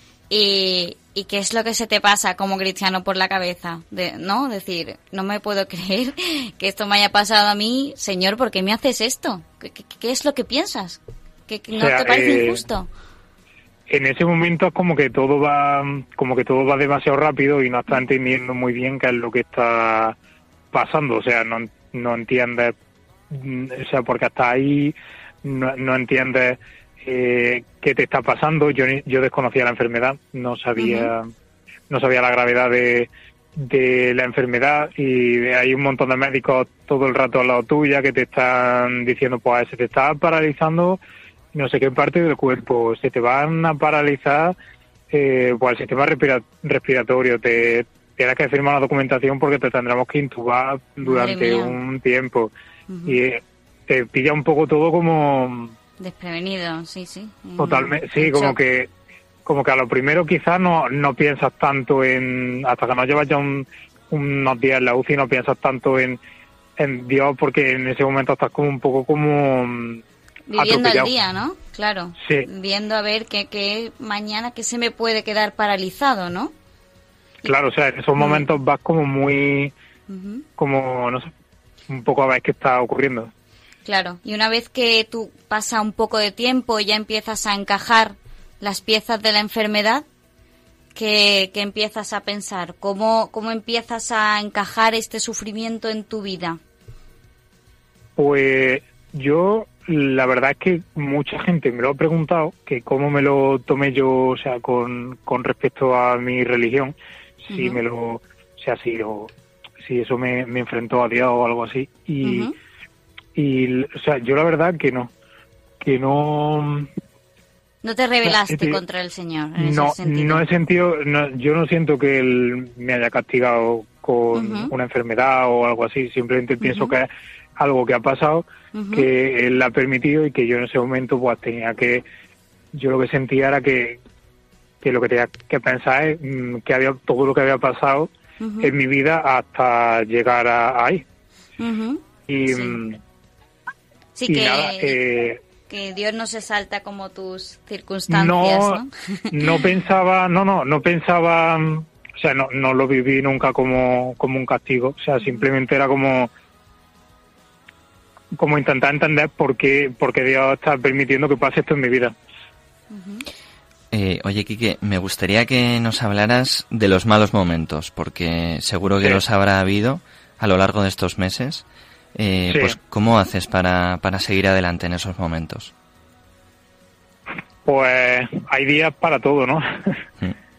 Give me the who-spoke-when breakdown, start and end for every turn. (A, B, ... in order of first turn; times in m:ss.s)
0:00.3-0:12.9 A
0:11.8-0:12.6 B
0:13.9-0:20.2 B
0:20.7-0:22.7 B
0:23.3-0:31.3 B
0:30.8-0:31.1 A
0:31.9-0:41.0 B
0:41.5-0:44.6 B
0:45.1-0:52.5 B
0:51.0-0:51.8 A
0:52.9-0:53.2 A
0:53.1-0:55.7 B
0:56.0-0:58.6 A
0:57.6-0:58.9 B
0:59.4-1:06.2 B
1:06.8-1:10.0 B
1:10.5-1:16.5 A
1:10.6-1:11.1 B
1:12.2-1:12.4 B
1:17.4-1:19.7 B
1:18.2-1:18.5 A
1:20.1-1:20.4 A
1:20.6-1:21.3 B
1:21.9-1:23.3 B
1:23.8-1:30.0 A
1:30.9-1:36.6 A
1:38.2-1:46.9 B
1:47.5-1:47.8 A
1:47.5-1:49.3 B
1:49.8-1:52.5 B
1:52.2-1:52.5 A
1:53.3-1:55.1 B
1:55.8-1:56.9 B
1:57.8-2:00.4 A
1:58.2-1:58.8 B
1:59.6-2:12.0 B
2:04.3-2:04.7 A
2:06.6-2:07.0 A
2:08.7-2:09.1 A
2:12.7-2:14.0 B
2:14.8-2:18.1 B
2:18.4-2:18.7 A
2:18.6-2:21.0 B
2:21.6-2:22.8 A
2:22.3-2:23.0 B
2:24.2-2:25.0 A
2:24.3-2:25.4 B
2:25.7-2:29.6 A
2:28.1-2:28.8 B
2:29.3-2:36.3 B
2:38.3-2:42.1 B
2:42.9-2:43.2 A
2:43.9-2:55.7 C
2:52.5-2:52.8 B
2:57.6-3:00.0 B